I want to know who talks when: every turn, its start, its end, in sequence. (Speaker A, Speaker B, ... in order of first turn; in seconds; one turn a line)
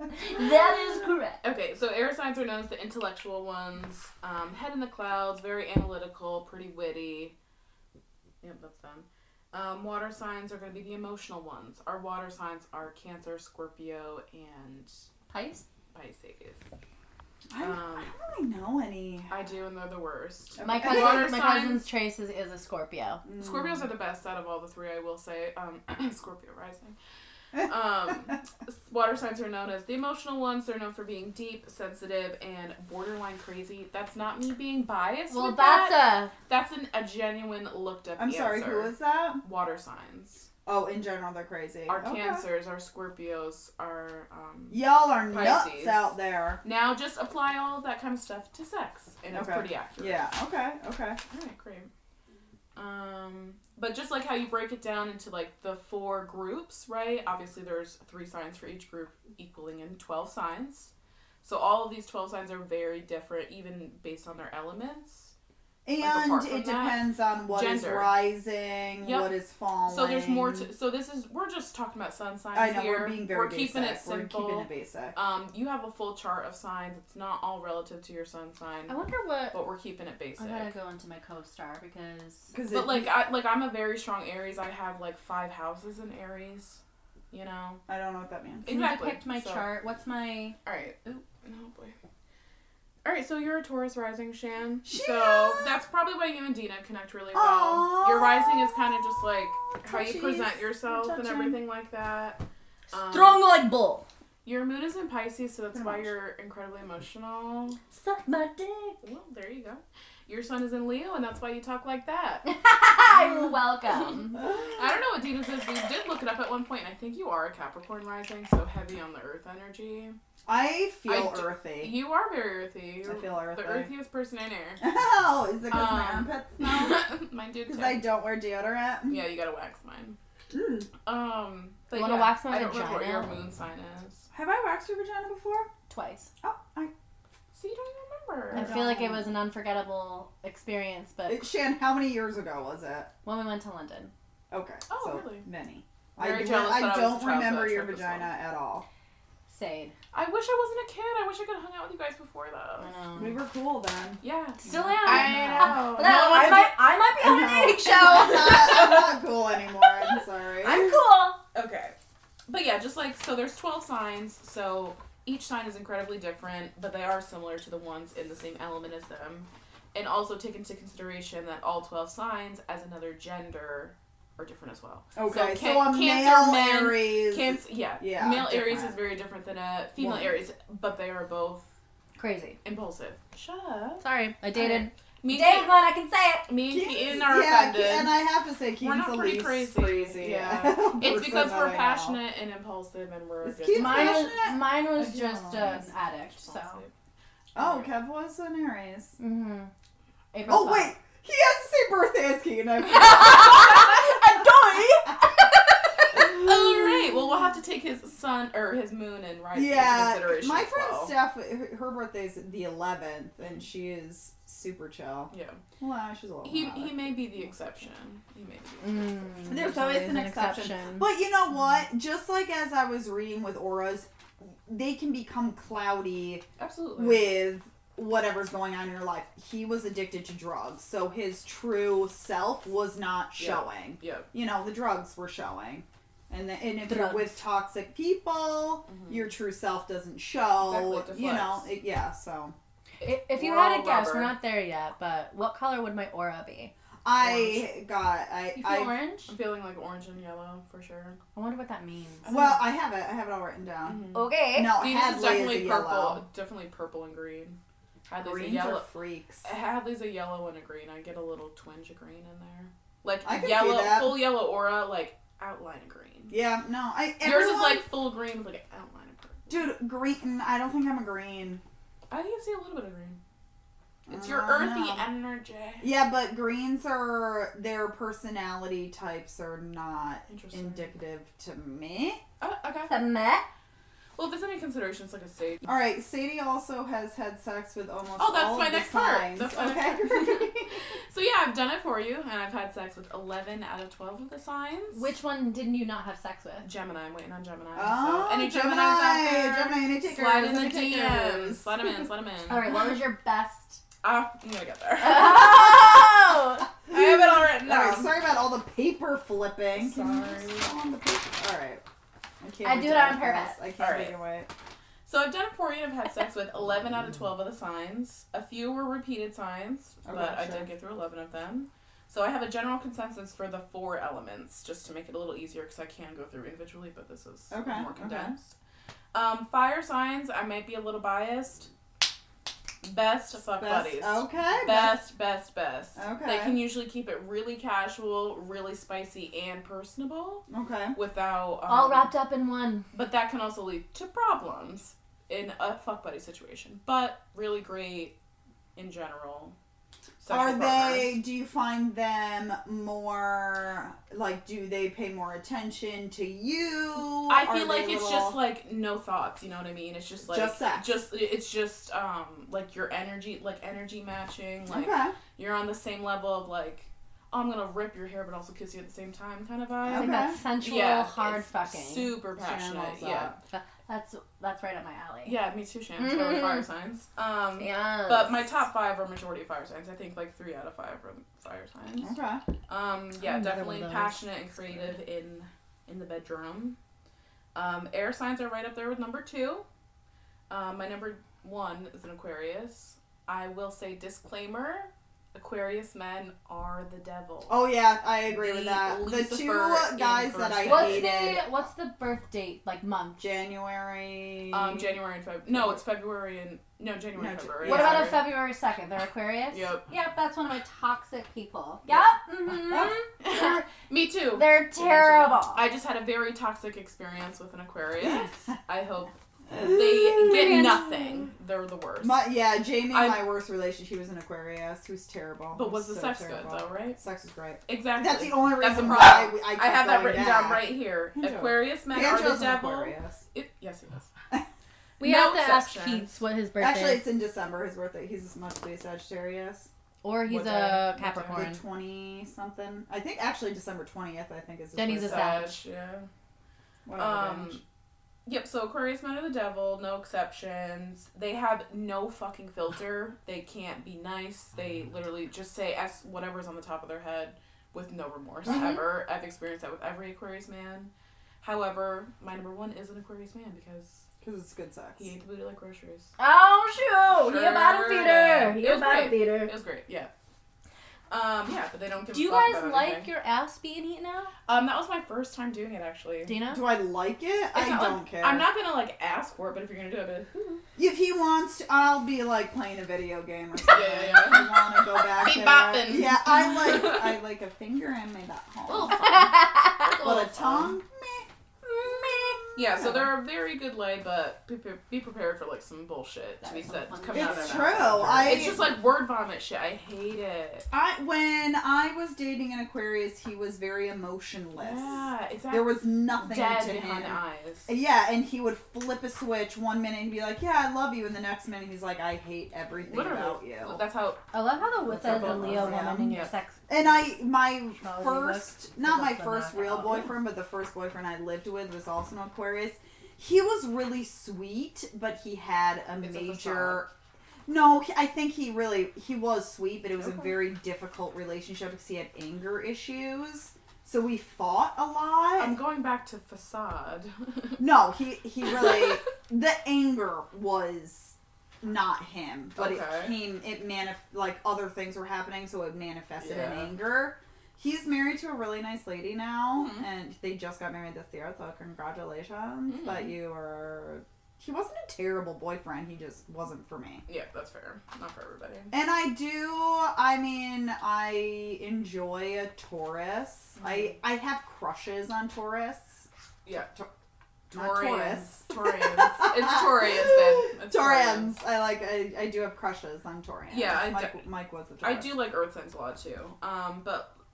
Speaker A: 0.1-1.4
Speaker B: 1.4-7.3
Speaker B: 8.4-14.9
Speaker A: 15.3-15.6
Speaker B: 15.9-16.6
Speaker C: 17.5-19.3
Speaker B: 17.6-18.1
Speaker B: 19.3-21.9
Speaker C: 20.6-21.3
Speaker A: 20.6-23.2
Speaker C: 23.3-23.8
Speaker B: 23.3-26.9
Speaker B: 27.6-40.5
Speaker A: 35.3-36.3
Speaker C: 38.2-39.4
Speaker C: 40.6-42.4
Speaker B: 41.9-50.3
Speaker C: 44.7-46.6
Speaker C: 49.3-51.2
Speaker B: 51.3-51.9
Speaker B: 52.7-60.9
Speaker B: 61.4-65.3
Speaker C: 65.8-70.7
Speaker B: 66.0-68.2
Speaker B: 69.0-69.3
Speaker B: 69.8-79.0
Speaker C: 72.5-75.1
Speaker A: 78.9-79.5
Speaker B: 79.5-80.7
Speaker A: 80.4-82.5
Speaker C: 82.5-83.2
Speaker B: 82.7-87.8
Speaker C: 87.9-88.7
Speaker B: 88.6-89.7
Speaker A: 88.7-90.5
Speaker B: 90.6-92.0
Speaker B: 93.0-103.4
Speaker C: 94.8-95.8
Speaker C: 97.3-101.5
Speaker A: 103.1-104.0
Speaker B: 104.4-107.8
Speaker C: 105.7-106.1
Speaker A: 107.9-109.0
Speaker B: 109.0-112.5
Speaker A: 112.4-114.4
Speaker B: 113.0-120.2
Speaker C: 114.4-114.8
Speaker C: 120.5-122.0
Speaker B: 121.0-124.8
Speaker C: 123.0-123.9
Speaker C: 124.8-127.0
Speaker B: 125.7-128.1
Speaker C: 127.7-129.2
Speaker B: 129.1-130.2
Speaker C: 130.5-130.9
Speaker B: 131.0-134.3
Speaker A: 131.9-133.4
Speaker C: 134.3-135.7
Speaker A: 135.9-136.3
Speaker C: 136.4-136.9
Speaker B: 137.5-138.8
Speaker C: 138.5-139.3
Speaker A: 138.5-141.5
Speaker C: 141.3-143.1
Speaker A: 143.2-144.1
Speaker C: 144.5-148.9
Speaker B: 144.9-145.5
Speaker B: 146.2-148.3
Speaker A: 149.5-149.9
Speaker B: 150.1-152.9
Speaker A: 152.8-153.4
Speaker C: 153.2-156.5
Speaker B: 154.2-156.8
Speaker A: 154.6-159.0
Speaker C: 157.2-161.0
Speaker B: 158.0-159.1
Speaker A: 160.6-161.4
Speaker B: 161.5-161.9
Speaker B: 162.5-181.7
Speaker C: 175.2-179.0
Speaker C: 180.0-180.4
Speaker A: 182.2-182.6
Speaker B: 182.6-184.0
Speaker A: 184.0-186.5
Speaker B: 184.5-185.7
Speaker B: 186.5-188.2
Speaker C: 186.7-192.2
Speaker B: 188.8-194.3
Speaker C: 193.4-195.8
Speaker A: 193.7-196.8
Speaker B: 196.2-196.9
Speaker B: 197.5-197.9
Speaker C: 197.5-199.2
Speaker A: 199.2-199.7
Speaker A: 200.3-200.9
Speaker C: 200.5-205.3
Speaker A: 202.9-205.6
Speaker C: 206.1-207.1
Speaker B: 206.1-211.1
Speaker C: 209.5-217.5
Speaker B: 215.3-215.6
Speaker B: 216.4-219.3
Speaker A: 218.8-221.1
Speaker C: 219.5-226.4
Speaker B: 226.6-227.3
Speaker C: 226.9-242.6
Speaker B: 233.3-234.3
Speaker A: 236.8-237.4
Speaker B: 238.8-239.3
Speaker B: 240.6-241.7
Speaker B: 243.0-244.3
Speaker A: 243.0-247.6
Speaker C: 247.0-249.0
Speaker A: 248.5-249.3
Speaker B: 249.3-251.2
Speaker A: 251.3-252.3
Speaker B: 252.2-252.7
Speaker C: 252.3-256.2
Speaker B: 253.8-258.9
Speaker A: 254.1-254.8
Speaker C: 258.2-259.4
Speaker B: 259.4-266.3
Speaker C: 263.2-264.3
Speaker C: 266.3-267.8
Speaker B: 267.2-269.6
Speaker C: 269.5-271.6
Speaker B: 272.1-273.2
Speaker C: 274.1-275.1
Speaker B: 274.1-275.9
Speaker C: 275.8-282.2
Speaker B: 280.3-280.9
Speaker B: 282.4-283.0
Speaker A: 282.9-283.4
Speaker B: 284.2-285.7
Speaker C: 285.6-290.8
Speaker B: 288.2-295.1
Speaker A: 294.9-296.7
Speaker B: 296.6-303.0
Speaker C: 297.7-301.6
Speaker A: 302.5-303.8
Speaker B: 304.0-306.1
Speaker A: 305.0-306.7
Speaker B: 306.9-308.1
Speaker C: 306.9-311.8
Speaker B: 309.7-310.7
Speaker C: 312.4-314.5
Speaker A: 312.6-313.6
Speaker B: 313.8-314.2
Speaker B: 315.1-328.5
Speaker C: 320.0-320.7
Speaker C: 327.5-328.3
Speaker B: 329.1-331.7
Speaker B: 332.8-342.1
Speaker C: 333.6-335.0
Speaker C: 335.9-336.6
Speaker C: 340.5-340.9
Speaker A: 341.7-342.9
Speaker B: 342.9-348.1
Speaker B: 348.8-349.6
Speaker B: 350.2-351.2
Speaker C: 350.3-358.4
Speaker B: 357.3-373.3
Speaker C: 360.2-361.0
Speaker C: 364.7-365.1
Speaker C: 369.8-370.4
Speaker A: 369.9-372.1
Speaker C: 372.4-373.4
Speaker A: 373.5-375.4
Speaker B: 375.2-382.1
Speaker A: 376.0-376.6
Speaker A: 377.6-378.4
Speaker C: 382.0-382.4
Speaker B: 382.7-386.8
Speaker A: 383.2-384.2
Speaker B: 387.5-389.6
Speaker B: 390.5-397.7
Speaker C: 397.5-401.6
Speaker B: 398.2-401.1
Speaker A: 400.6-403.3
Speaker C: 403.2-404.9
Speaker B: 404.5-408.3
Speaker C: 405.5-405.8
Speaker C: 407.1-408.2
Speaker A: 407.6-413.6
Speaker B: 409.5-409.9
Speaker C: 412.6-412.9
Speaker B: 413.2-422.2
Speaker A: 414.3-415.6
Speaker C: 418.0-418.5
Speaker C: 419.5-420.8
Speaker A: 420.2-421.0
Speaker C: 422.0-433.2
Speaker B: 422.9-423.3
Speaker B: 425.5-427.0
Speaker B: 427.7-434.1
Speaker B: 435.0-436.2
Speaker A: 435.0-437.1
Speaker C: 436.6-439.7
Speaker A: 440.0-441.6
Speaker B: 440.3-441.5
Speaker C: 441.3-445.5
Speaker A: 444.7-445.6
Speaker B: 445.0-446.1
Speaker C: 446.9-447.6
Speaker B: 446.9-447.6
Speaker B: 448.2-464.1
Speaker A: 458.4-458.8
Speaker C: 464.2-465.1
Speaker B: 465.0-466.1
Speaker A: 466.2-469.5
Speaker B: 467.1-470.1
Speaker B: 471.1-473.1
Speaker A: 472.1-474.3
Speaker B: 474.5-476.4
Speaker A: 476.2-476.7
Speaker C: 476.5-478.4
Speaker B: 477.5-480.6
Speaker C: 480.8-489.2
Speaker B: 483.6-487.2
Speaker B: 488.7-490.8
Speaker A: 489.0-489.9
Speaker C: 490.0-491.3
Speaker A: 491.6-492.4
Speaker C: 491.8-493.1
Speaker B: 492.5-500.6
Speaker A: 496.4-498.6
Speaker C: 497.1-498.8
Speaker C: 500.7-513.8
Speaker B: 504.6-507.7
Speaker B: 512.8-514.2
Speaker A: 514.3-516.9
Speaker B: 514.8-516.3
Speaker C: 514.9-526.9
Speaker A: 517.8-520.1
Speaker B: 526.0-526.8
Speaker C: 527.5-535.6
Speaker B: 530.0-530.3
Speaker B: 535.4-537.6
Speaker C: 537.6-557.0
Speaker B: 538.4-539.0
Speaker B: 542.5-543.2
Speaker B: 546.2-546.7
Speaker B: 549.5-549.9
Speaker B: 552.7-553.1
Speaker B: 557.1-558.7
Speaker C: 558.7-566.1
Speaker B: 563.6-563.9
Speaker B: 566.4-566.7
Speaker B: 567.5-571.3
Speaker C: 567.5-575.1
Speaker B: 573.5-574.2
Speaker B: 574.8-577.1